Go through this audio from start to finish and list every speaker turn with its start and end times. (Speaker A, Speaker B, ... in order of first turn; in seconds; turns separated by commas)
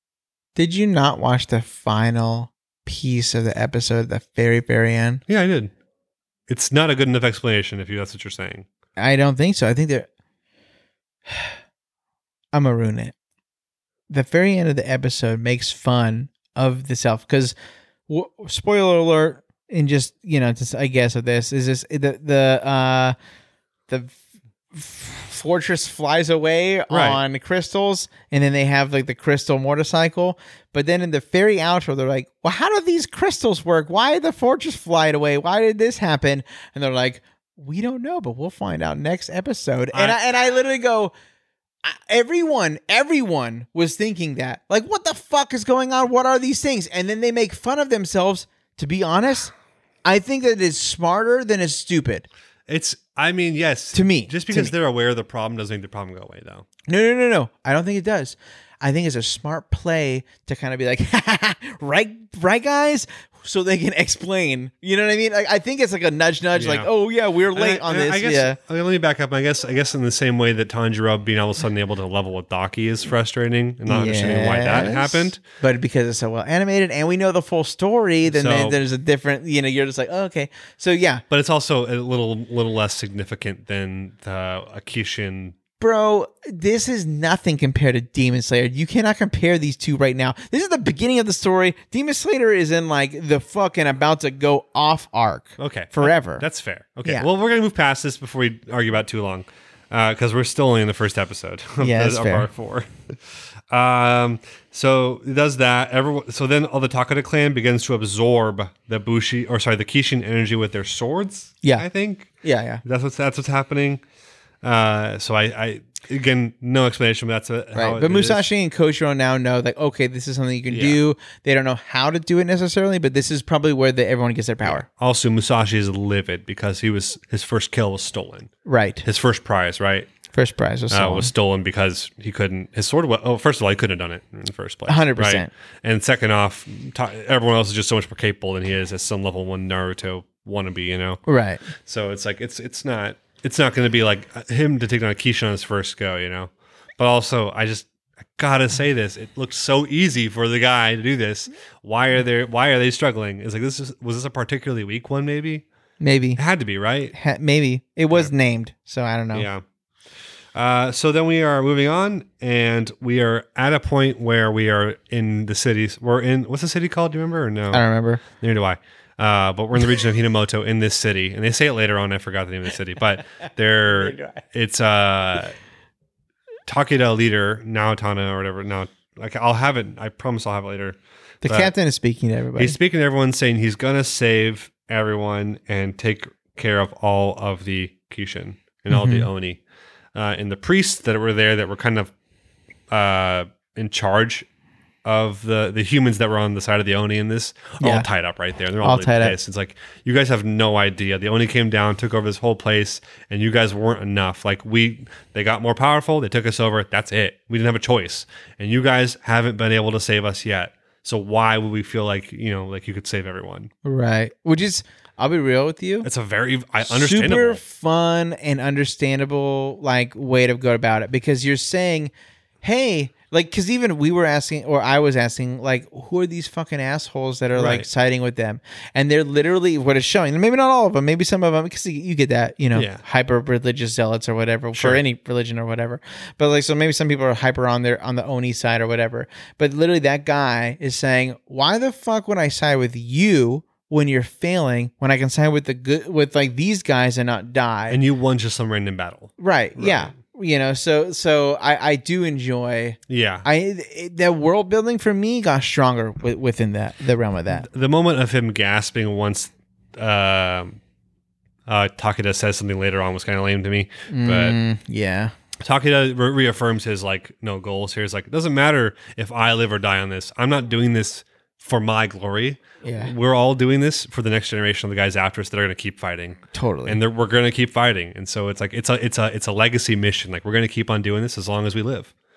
Speaker A: 0.6-5.2, Speaker B: 5.3-5.7, Speaker B: 6.5-8.7, Speaker A: 9.0-10.1, Speaker A: 11.3-11.5, Speaker A: 12.5-13.1, Speaker A: 14.1-17.5, Speaker A: 18.1-23.1, Speaker A: 23.9-24.2, Speaker A: 24.7-41.1, Speaker B: 26.9-27.2, Speaker B: 39.9-40.2, Speaker A: 41.8-49.5, Speaker A: 50.0-52.2, Speaker B: 52.7-56.6, Speaker A: 53.9-54.7, Speaker A: 56.9-68.6, Speaker B: 66.5-66.9, Speaker B: 67.5-75.4, Speaker A: 73.8-81.2, Speaker B: 78.2-78.8, Speaker B: 81.3-85.6, Speaker A: 85.8-96.4, Speaker B: 95.6-103.1, Speaker A: 101.8-102.5, Speaker B: 103.7-112.3, Speaker A: 112.4-112.8, Speaker B: 112.8-114.0, Speaker B: 114.6-118.5, Speaker A: 117.7-124.8, Speaker B: 120.7-121.0, Speaker B: 124.6-128.5, Speaker A: 128.6-129.0, Speaker B: 129.0-130.1, Speaker A: 130.3-131.3, Speaker B: 130.9-155.6, Speaker A: 134.9-135.5, Speaker A: 141.2-141.6, Speaker A: 156.0-156.4, Speaker B: 156.3-157.1, Speaker A: 157.1-159.5, Speaker B: 159.3-159.6, Speaker B: 160.5-175.5, Speaker A: 167.7-168.2, Speaker A: 173.9-174.4, Speaker B: 176.7-181.7, Speaker A: 181.4-182.8, Speaker B: 182.6-189.6, Speaker A: 188.9-189.3, Speaker B: 190.1-192.1, Speaker B: 192.9-194.4, Speaker B: 195.0-213.7, Speaker A: 197.8-198.1, Speaker A: 198.8-199.4, Speaker A: 213.8-216.1, Speaker B: 216.0-217.6, Speaker A: 216.8-248.0, Speaker B: 227.5-227.9, Speaker B: 232.7-233.0, Speaker B: 234.7-235.0, Speaker B: 247.9-250.1, Speaker A: 249.4-257.7, Speaker B: 253.1-253.4, Speaker B: 257.5-260.8, Speaker B: 261.7-264.6, Speaker A: 264.1-265.3, Speaker B: 265.6-282.1, Speaker A: 272.8-273.1, Speaker A: 276.5-277.0